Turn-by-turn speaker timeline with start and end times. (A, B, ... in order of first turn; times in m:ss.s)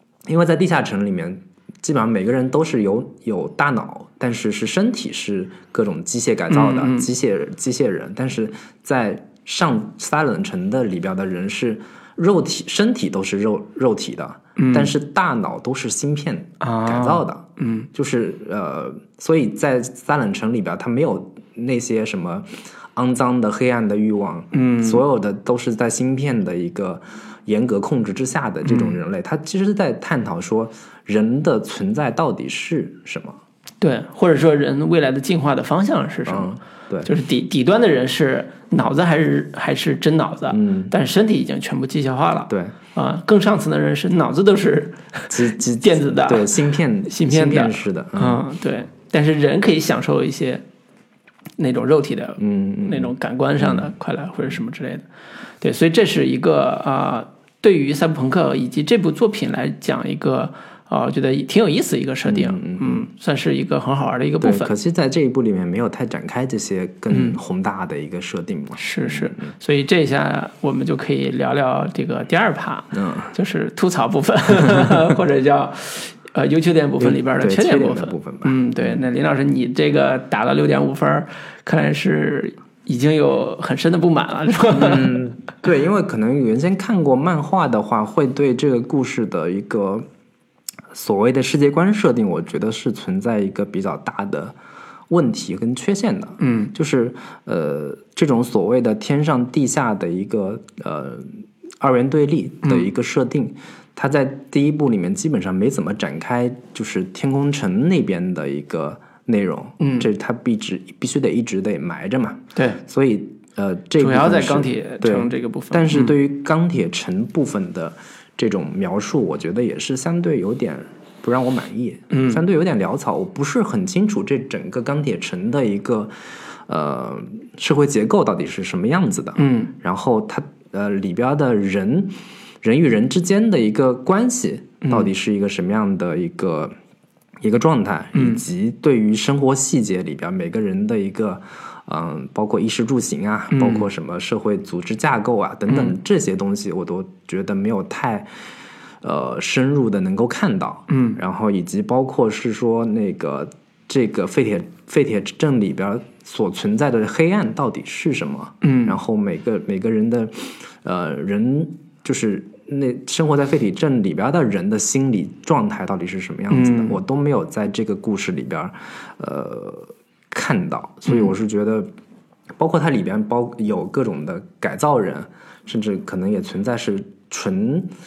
0:00.3-0:33.4 A
0:06.5-0:07.1 B
0:14.6-0:14.9 B
0:16.6-0:17.9 B
0:24.5-0:25.0 B
0:28.6-0:29.0 B
0:33.8-0:36.5 B
0:36.2-0:37.1 A
0:37.0-0:50.6 B
0:40.5-0:40.9 A
0:42.5-0:42.7 A
0:45.3-0:48.4 A
0:51.6-0:55.0 B
0:52.4-0:53.9 A
0:55.6-1:04.7 B
1:02.2-1:03.0 A
1:04.4-1:09.5 A
1:07.1-1:07.4 B
1:08.8-1:25.2 B
1:12.9-1:13.3 A
1:14.6-1:15.0 A
1:17.0-1:19.0 A
1:24.7-1:30.0 A
1:30.9-1:34.6 A
1:35.1-2:16.7 A
1:36.4-1:36.7 B
1:49.8-1:50.1 B
1:52.6-1:52.8 B
1:54.0-1:56.1 B
2:02.1-2:02.4 B
2:09.4-2:09.7 B
2:14.8-2:15.1 B
2:17.4-2:28.3 A
2:18.1-2:18.4 B
2:23.5-2:23.9 B
2:25.7-2:25.9 B
2:29.0-2:51.9 A
2:30.9-2:31.2 B
2:38.6-2:39.0 B
2:46.5-2:47.0 B
2:52.6-2:57.9 A